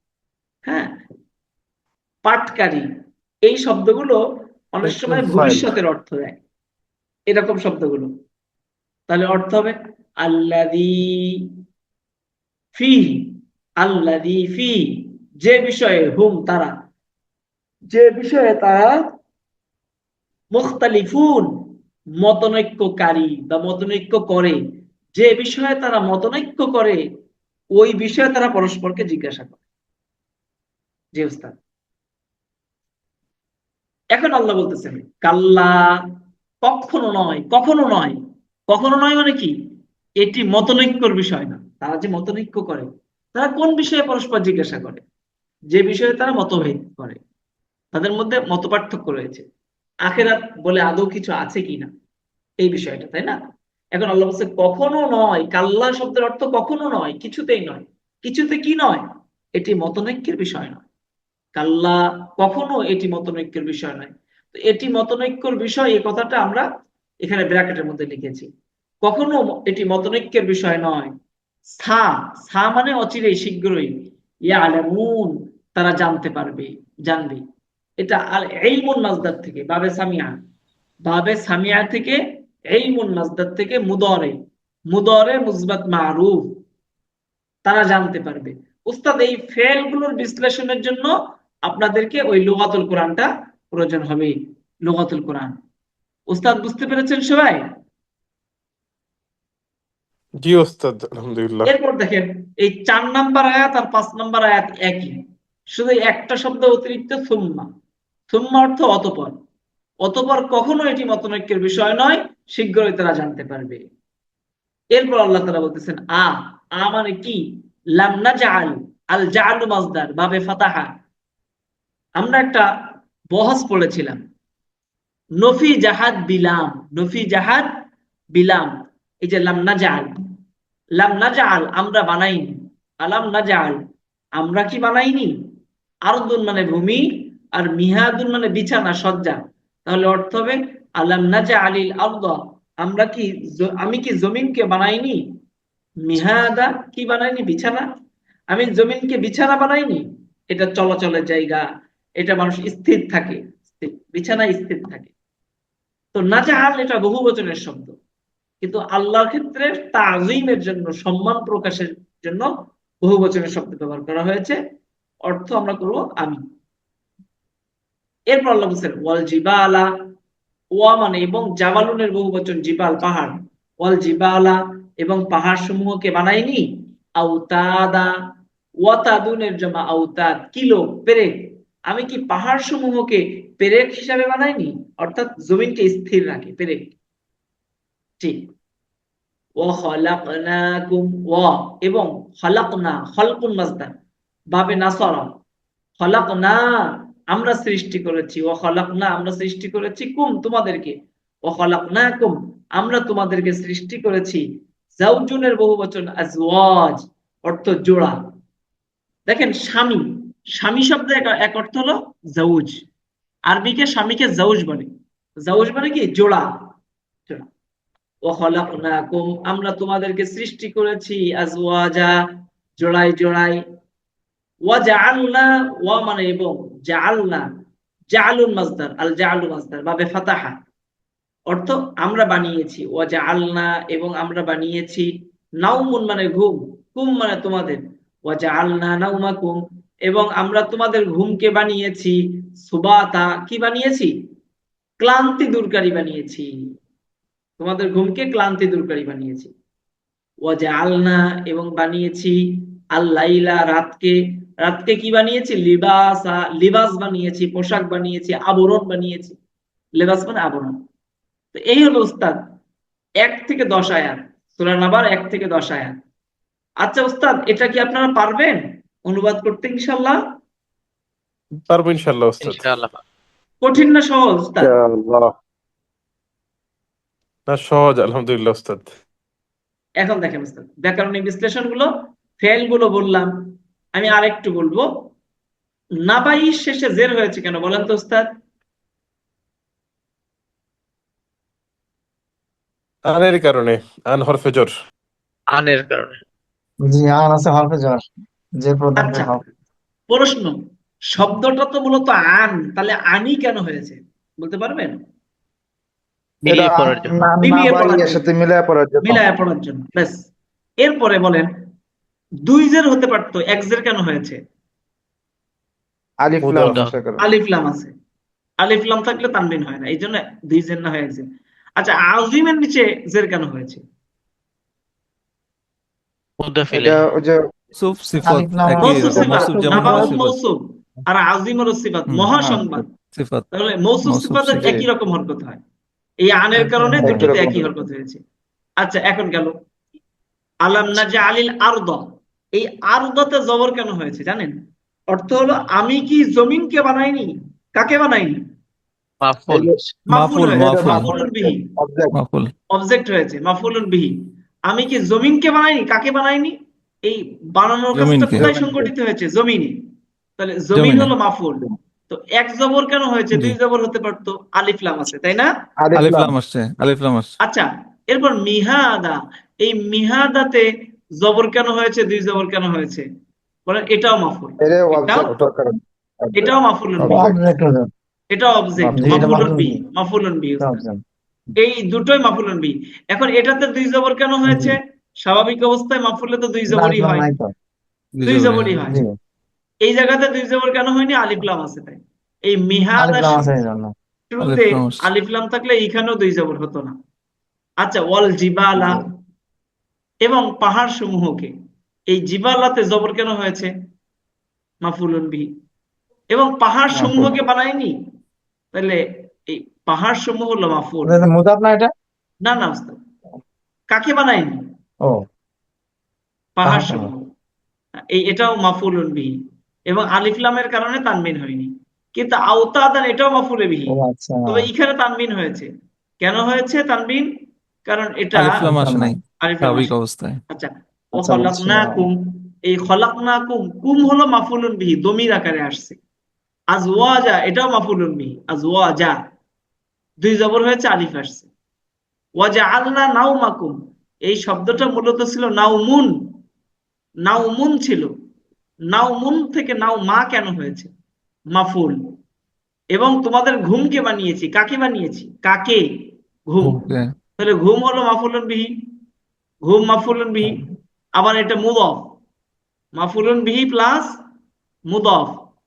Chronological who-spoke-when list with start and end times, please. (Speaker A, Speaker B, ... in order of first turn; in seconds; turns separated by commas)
Speaker A: 0.7-0.9, Speaker A: 2.2-2.9, Speaker A: 3.5-4.2, Speaker A: 4.7-6.4, Speaker B: 4.8-5.7, Speaker A: 7.3-8.1, Speaker A: 9.1-11.4, Speaker A: 12.8-14.8, Speaker A: 15.4-16.7, Speaker A: 17.9-18.9, Speaker A: 20.5-21.5, Speaker A: 22.2-24.6, Speaker A: 25.2-27.0, Speaker A: 27.8-29.6, Speaker A: 31.1-31.5, Speaker A: 34.1-35.8, Speaker A: 36.6-38.1, Speaker A: 38.7-39.5, Speaker A: 40.2-45.0, Speaker A: 45.7-47.2, Speaker A: 47.9-49.4, Speaker A: 50.0-51.9, Speaker A: 52.6-53.4, Speaker A: 53.9-59.0, Speaker A: 59.6-60.8, Speaker A: 61.5-66.7, Speaker A: 67.2-68.5, Speaker A: 69.0-71.1, Speaker A: 71.8-73.9, Speaker A: 74.5-77.4, Speaker A: 78.0-80.4, Speaker A: 81.0-82.2, Speaker A: 82.7-84.4, Speaker A: 84.9-86.4, Speaker A: 87.7-91.1, Speaker A: 91.7-94.3, Speaker A: 94.8-95.5, Speaker A: 96.3-97.6, Speaker B: 100.4-101.7, Speaker A: 101.7-105.2, Speaker A: 105.7-107.7, Speaker A: 108.3-109.3, Speaker A: 110.0-113.8, Speaker A: 114.9-117.4, Speaker A: 118.0-120.9, Speaker A: 122.2-122.7, Speaker A: 123.3-124.2, Speaker A: 125.4-127.7, Speaker A: 128.3-128.7, Speaker A: 129.2-130.2, Speaker A: 131.0-133.8, Speaker A: 134.4-135.3, Speaker A: 136.1-145.2, Speaker A: 146.1-147.8, Speaker A: 148.5-151.6, Speaker A: 152.2-155.1, Speaker A: 156.1-157.9, Speaker A: 158.6-162.5, Speaker A: 163.0-164.6, Speaker A: 165.2-166.4, Speaker A: 168.3-169.9, Speaker A: 170.8-176.6, Speaker A: 177.2-178.1, Speaker A: 178.8-181.3, Speaker A: 181.9-186.9, Speaker A: 189.6-193.9, Speaker A: 194.5-195.3, Speaker A: 196.0-196.7, Speaker A: 197.3-200.9, Speaker A: 201.5-204.4, Speaker A: 205.0-208.2, Speaker A: 209.3-210.0, Speaker A: 210.6-212.8, Speaker A: 213.5-214.9, Speaker A: 215.4-216.4, Speaker A: 218.2-222.1, Speaker A: 222.8-223.6, Speaker A: 224.7-227.4, Speaker A: 228.1-230.6, Speaker A: 231.5-235.1, Speaker A: 235.6-244.1, Speaker A: 245.0-246.5, Speaker A: 247.6-249.5, Speaker A: 250.4-252.4, Speaker A: 252.9-259.4, Speaker A: 260.0-260.7, Speaker A: 261.5-262.4, Speaker A: 263.2-265.9, Speaker A: 266.8-270.2, Speaker B: 271.7-272.7, Speaker C: 272.4-273.0, Speaker A: 273.6-274.7, Speaker B: 274.6-275.2, Speaker B: 277.5-278.9, Speaker A: 280.0-283.3, Speaker A: 283.9-284.9, Speaker A: 286.0-288.3, Speaker B: 293.1-294.7, Speaker C: 295.5-296.2, Speaker D: 296.8-299.4, Speaker A: 299.0-299.4, Speaker A: 300.1-300.5, Speaker A: 301.1-304.9, Speaker C: 306.4-307.3, Speaker E: 306.4-309.2, Speaker A: 307.4-308.2, Speaker A: 309.0-310.2, Speaker A: 310.8-311.5, Speaker A: 312.4-314.4, Speaker E: 316.2-317.3, Speaker C: 316.4-316.9, Speaker A: 317.2-317.9, Speaker A: 318.6-321.2, Speaker A: 321.8-323.8, Speaker C: 326.4-327.1, Speaker E: 326.7-327.4, Speaker F: 327.8-330.4, Speaker D: 328.2-329.9, Speaker A: 328.8-332.9, Speaker E: 329.1-330.1, Speaker D: 332.3-332.6, Speaker F: 333.1-333.4, Speaker A: 333.5-335.6, Speaker F: 334.0-334.8, Speaker A: 336.2-338.2, Speaker D: 336.6-337.6, Speaker E: 337.0-337.7, Speaker A: 338.8-339.5, Speaker A: 340.6-344.5, Speaker A: 345.1-348.4, Speaker C: 349.2-350.1, Speaker E: 349.5-349.8, Speaker A: 350.1-351.6, Speaker F: 350.1-351.1, Speaker E: 350.5-352.1, Speaker F: 352.1-352.5, Speaker A: 352.7-354.1, Speaker A: 354.7-359.8, Speaker F: 357.9-358.5, Speaker E: 358.5-358.8, Speaker A: 360.4-365.5, Speaker F: 360.7-361.1, Speaker E: 365.8-366.3, Speaker F: 365.9-367.3, Speaker A: 367.4-373.1, Speaker A: 373.7-375.3, Speaker E: 374.6-377.4, Speaker A: 376.4-377.3, Speaker D: 377.0-377.9, Speaker A: 378.3-380.8, Speaker D: 378.8-379.8, Speaker D: 380.6-381.0, Speaker A: 381.6-387.2, Speaker D: 384.4-384.8, Speaker D: 386.7-387.5, Speaker F: 388.1-388.9, Speaker A: 388.2-389.0, Speaker D: 388.9-389.1, Speaker A: 389.8-393.5, Speaker D: 393.0-393.9, Speaker A: 394.3-396.9, Speaker F: 394.4-395.0, Speaker A: 397.8-399.0, Speaker A: 400.2-401.5, Speaker A: 402.1-403.7, Speaker A: 404.8-405.5, Speaker A: 406.3-407.9, Speaker D: 407.0-407.3, Speaker A: 408.7-409.0, Speaker A: 409.5-411.2, Speaker D: 411.0-411.9, Speaker A: 412.4-413.0, Speaker A: 413.9-414.6, Speaker A: 416.6-417.2, Speaker D: 416.6-417.1, Speaker A: 418.0-419.3, Speaker A: 419.9-423.9, Speaker D: 423.9-424.7, Speaker A: 424.5-425.7, Speaker A: 426.2-427.3, Speaker A: 427.9-428.6, Speaker F: 428.3-430.4, Speaker D: 428.6-429.2, Speaker A: 429.4-429.9, Speaker A: 430.5-436.0, Speaker D: 431.1-432.1, Speaker A: 436.7-439.2, Speaker A: 440.2-441.5, Speaker A: 442.4-443.7, Speaker A: 444.3-446.1, Speaker A: 447.2-448.1, Speaker A: 448.9-450.9, Speaker A: 451.6-452.0, Speaker A: 452.9-455.8, Speaker A: 456.5-456.8, Speaker F: 456.6-457.1, Speaker A: 457.4-458.7, Speaker A: 459.6-460.6, Speaker A: 461.2-462.0, Speaker A: 462.9-464.1, Speaker A: 464.9-465.4